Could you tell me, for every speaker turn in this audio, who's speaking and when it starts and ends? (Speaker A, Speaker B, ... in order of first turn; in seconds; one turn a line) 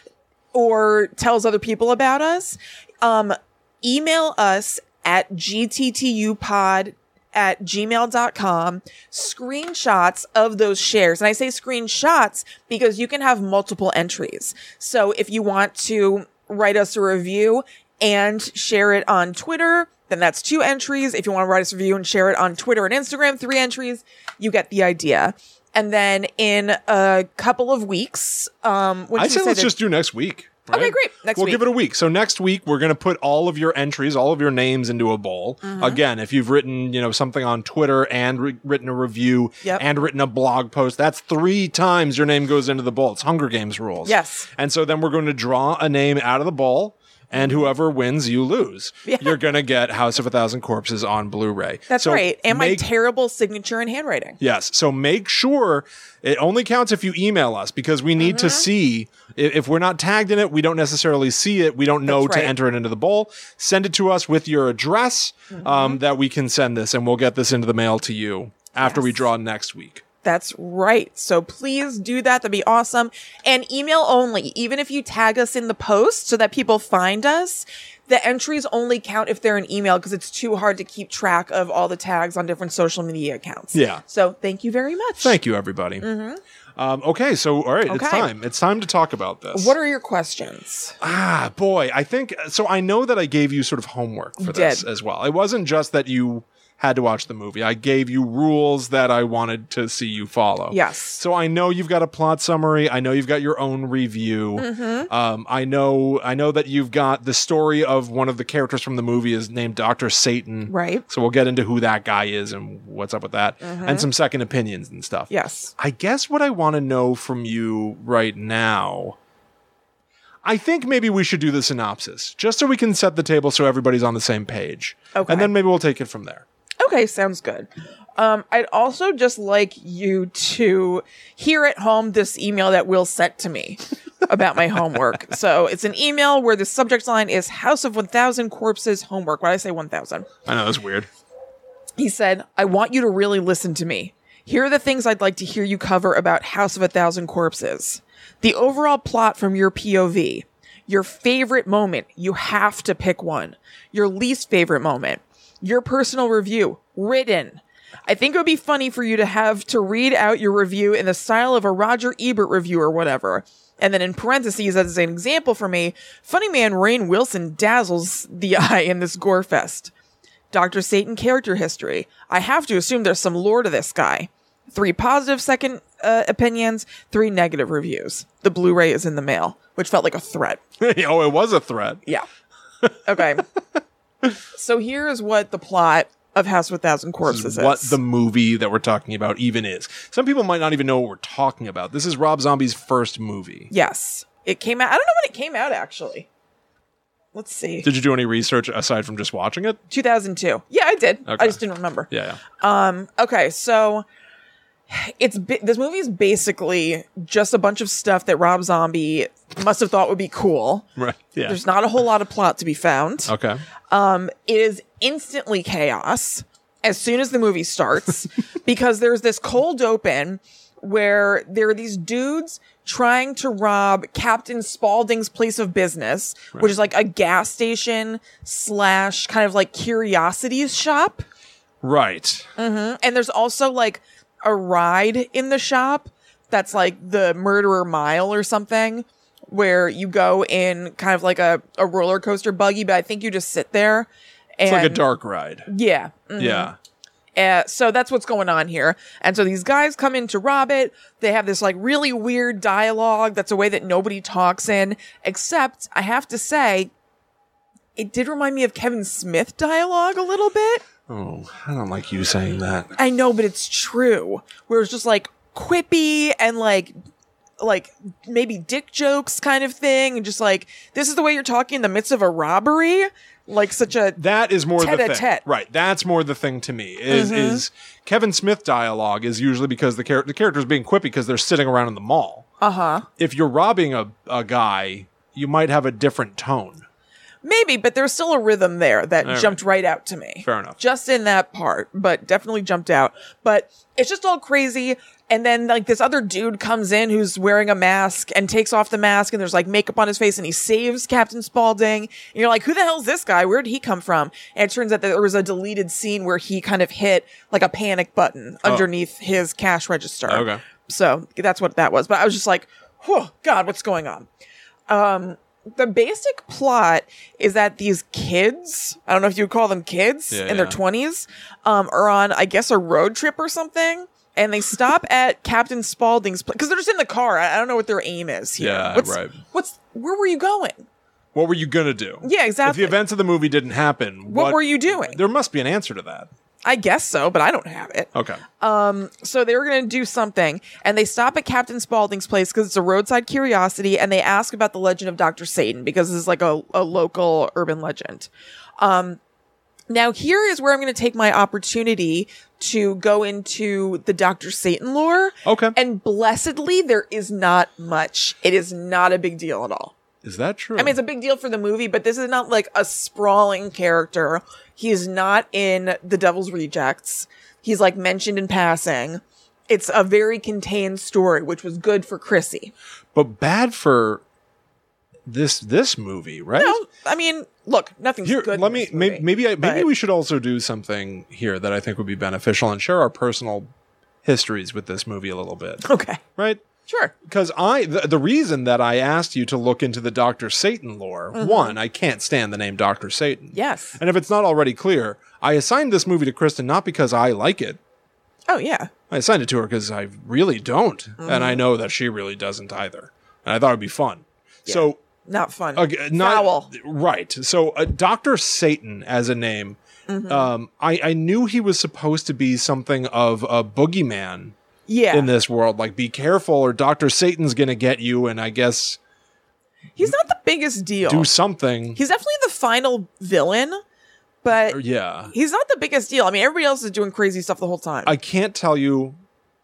Speaker A: 0.5-29.7
Speaker B: 29.1-52.8
Speaker A: 30.7-31.6
Speaker A: 35.6-36.0
Speaker A: 44.0-44.5
Speaker A: 47.4-47.6
Speaker A: 49.0-49.4
Speaker A: 51.9-54.4
Speaker B: 54.4-70.0
Speaker A: 58.2-58.6
Speaker A: 62.1-62.5
Speaker A: 65.5-66.0
Speaker A: 68.8-69.1
Speaker A: 70.2-85.4
Speaker B: 83.7-84.0
Speaker B: 85.2-86.0
Speaker A: 86.0-86.4
Speaker B: 86.8-89.7
Speaker A: 87.9-88.3
Speaker A: 89.5-91.0
Speaker B: 91.0-119.2
Speaker A: 94.4-94.8
Speaker A: 100.7-101.2
Speaker A: 104.6-105.1
Speaker A: 110.7-111.0
Speaker A: 113.6-114.1
Speaker A: 115.3-115.7
Speaker B: 120.4-126.4
Speaker A: 125.1-125.5
Speaker A: 126.8-140.3
Speaker B: 140.4-141.1
Speaker A: 142.0-169.9
Speaker A: 170.5-180.6
Speaker B: 180.8-182.0
Speaker A: 183.0-183.5
Speaker A: 184.5-188.0
Speaker B: 187.2-193.7
Speaker A: 193.7-196.3
Speaker A: 197.3-197.9
Speaker B: 197.8-199.8
Speaker A: 199.9-204.0
Speaker B: 201.3-202.4
Speaker A: 204.9-210.9
Speaker B: 210.9-211.6
Speaker A: 211.4-213.3
Speaker B: 213.3-213.6
Speaker A: 213.9-231.2
Speaker B: 231.8-232.5
Speaker A: 232.6-245.0
Speaker B: 244.6-245.7
Speaker A: 245.7-246.7
Speaker B: 246.4-246.8
Speaker A: 247.3-256.9
Speaker A: 258.0-260.8
Speaker B: 261.1-262.9
Speaker A: 263.0-266.9
Speaker A: 267.6-274.2
Speaker B: 274.2-282.5
Speaker A: 274.8-275.4
Speaker A: 277.1-277.6
Speaker A: 282.6-283.1
Speaker B: 283.2-286.8
Speaker A: 287.4-314.3
Speaker B: 289.2-289.6
Speaker B: 290.4-290.8
Speaker B: 310.3-310.6
Speaker A: 314.9-330.8
Speaker B: 320.3-320.8
Speaker B: 328.6-329.4
Speaker B: 331.3-336.3
Speaker A: 332.2-333.0
Speaker A: 334.3-335.2
Speaker A: 336.6-349.2
Speaker B: 338.1-338.4
Speaker A: 349.9-359.9
Speaker B: 355.4-355.8
Speaker B: 360.2-361.0
Speaker A: 360.8-372.7
Speaker B: 373.1-374.2
Speaker B: 375.3-376.8
Speaker A: 376.6-379.9
Speaker B: 378.2-383.7
Speaker B: 384.2-385.8
Speaker A: 385.8-386.2
Speaker B: 386.4-386.6
Speaker A: 386.9-387.1
Speaker B: 387.2-397.8
Speaker A: 391.3-391.8
Speaker A: 393.5-394.0
Speaker A: 398.5-398.9
Speaker B: 399.1-405.0
Speaker A: 401.2-401.6
Speaker A: 404.7-406.7
Speaker B: 405.7-414.5
Speaker A: 410.1-410.5
Speaker A: 414.9-415.3
Speaker B: 415.1-419.0
Speaker A: 419.9-421.3
Speaker B: 421.1-422.0
Speaker A: 421.9-423.8
Speaker A: 424.4-428.1
Speaker B: 424.7-425.3
Speaker B: 428.0-429.1